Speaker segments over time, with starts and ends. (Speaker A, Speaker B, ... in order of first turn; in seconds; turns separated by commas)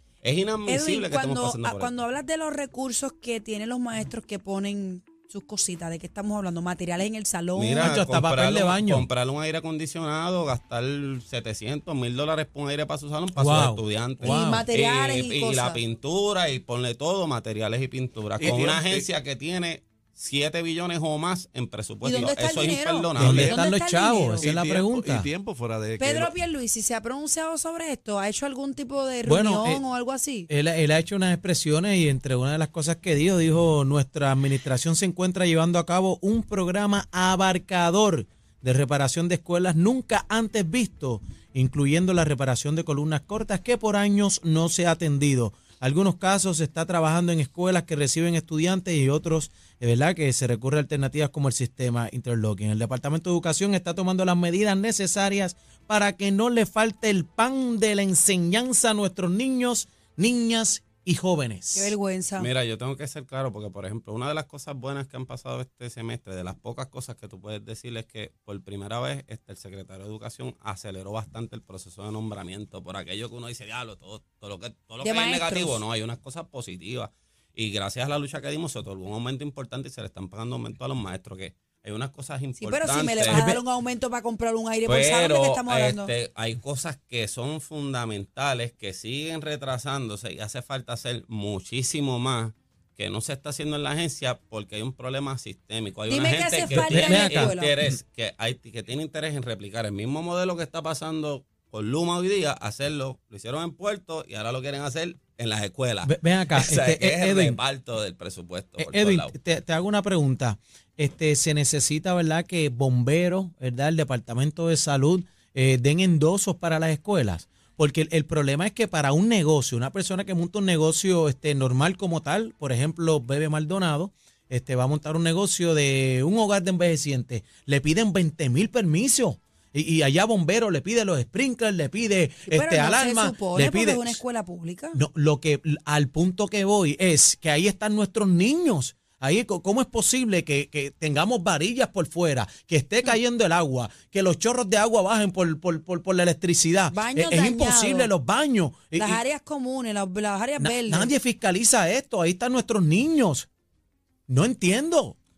Speaker A: 0.2-1.9, Speaker B: 0.7-7.9, Speaker A: 7.5-23.6, Speaker C: 7.8-9.1, Speaker C: 13.4-14.7, Speaker B: 14.2-15.8, Speaker D: 18.4-19.1, Speaker B: 22.0-24.5, Speaker C: 23.2-25.3, Speaker D: 23.2-23.6, Speaker D: 24.4-26.3, Speaker B: 26.0-30.5, Speaker C: 29.2-29.8, Speaker C: 30.5-62.0, Speaker B: 61.7-62.5, Speaker A: 62.4-83.4, Speaker B: 75.0-75.8, Speaker B: 82.6-86.1, Speaker C: 83.3-83.6, Speaker A: 84.9-109.3, Speaker B: 96.1-97.8, Speaker C: 96.7-97.6, Speaker C: 106.0-107.6, Speaker C: 108.8-134.2, Speaker B: 132.5-135.0, Speaker C: 134.9-149.2, Speaker B: 146.9-148.1, Speaker B: 149.0-151.1, Speaker C: 150.6-153.5, Speaker C: 154.3-155.2